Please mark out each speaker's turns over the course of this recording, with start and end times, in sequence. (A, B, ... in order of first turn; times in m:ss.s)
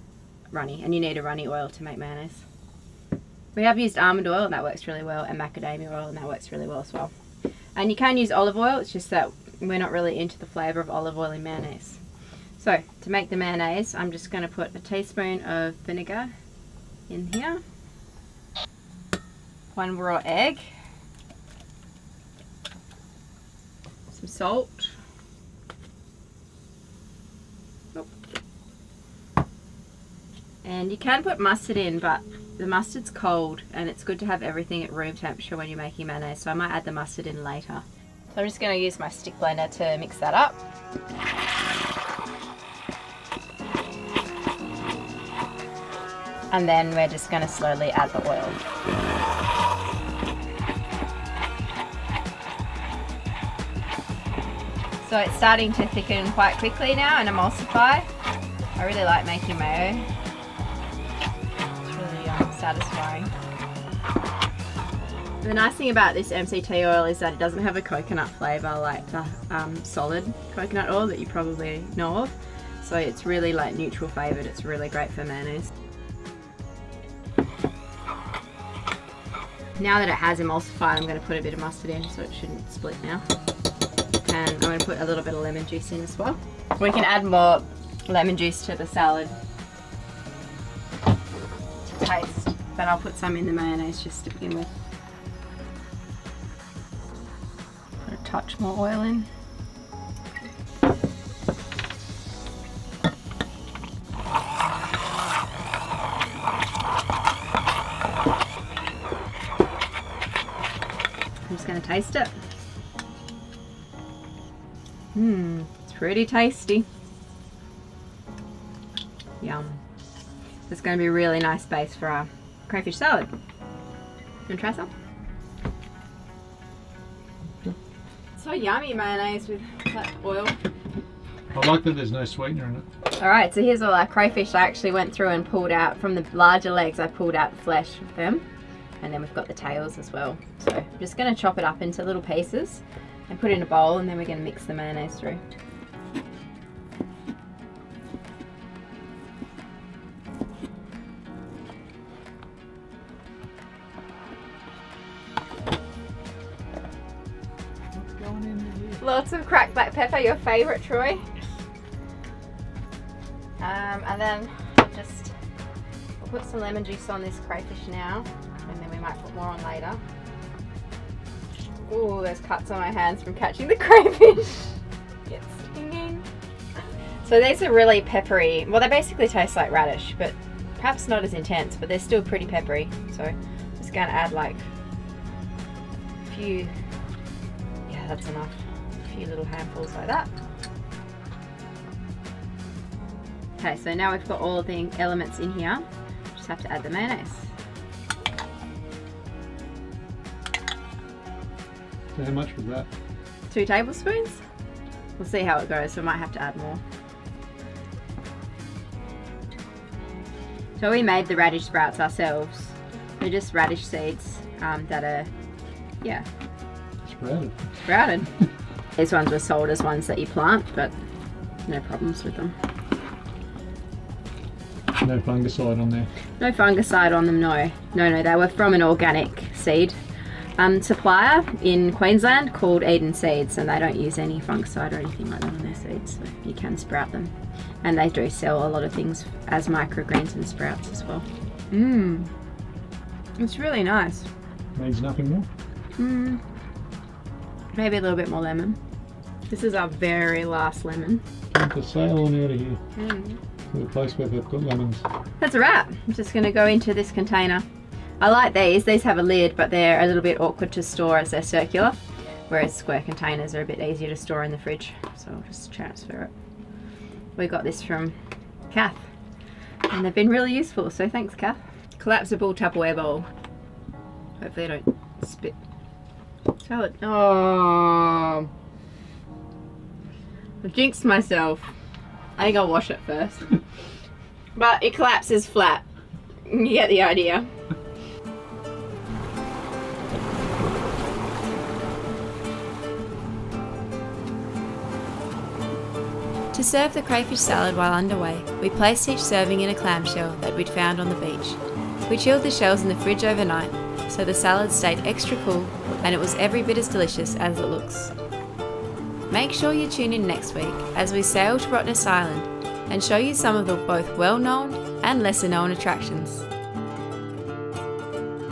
0:00.5-0:02.4 A
0:03.5-0:07.1 A
0:07.8-0:12.0 A
0:12.6-0:16.3 A
0:17.1-0:17.6 A
0:19.7-0:20.7 A
0:24.1-0:24.9 A
0:30.6-0:40.6 A
0:46.5-0:48.6 A
0:55.0-0:58.1 A
0:58.8-1:00.1 A
1:01.8-1:03.3 A
1:05.4-1:15.7 A
1:19.8-1:23.2 A
1:24.2-1:29.4 A
1:31.9-1:34.7 A
1:38.0-1:39.3 A
1:51.5-1:52.3 A
1:55.1-1:56.9 A
1:59.4-1:59.8 A
2:00.7-2:03.3 A
2:04.5-2:04.9 A
2:08.4-2:10.6 A
2:11.5-2:12.9 B
2:13.1-2:18.4 A
2:19.0-2:25.4 A
2:37.9-2:39.0 B
2:39.0-2:41.2 A
2:43.6-2:45.3 A
2:46.2-2:50.0 A
2:51.9-2:56.3 A
2:57.2-3:04.7 A
3:06.2-3:06.7 A
3:07.9-3:10.3 A
3:13.6-3:17.5 A
3:22.1-3:22.9 B
3:23.5-3:24.4 A
3:25.2-3:26.8 A
3:30.8-3:35.3 A
3:37.1-3:37.8 B
3:37.8-3:38.3 A
3:38.9-3:40.9 A
3:41.7-3:42.6 A
3:45.0-3:46.1 B
3:46.4-3:50.0 A
3:50.6-4:02.3 A
4:03.4-4:04.3 A
4:04.8-4:05.5 B
4:06.0-4:06.4 A
4:07.7-4:08.8 A
4:09.5-4:11.2 A
4:11.5-4:12.8 B
4:12.9-4:13.4 A
4:13.7-4:15.0 B
4:15.4-4:17.6 A
4:18.2-4:22.0 A
4:22.5-4:26.3 A
4:27.4-4:28.2 A
4:28.7-4:29.0 A
4:29.9-4:33.3 A
4:34.4-4:35.6 A
4:36.6-4:38.5 A
4:40.6-4:41.7 A
4:42.4-4:43.6 A
4:44.5-4:45.8 A
4:46.4-4:47.5 A
4:56.5-5:08.1 A
5:09.3-5:16.5 A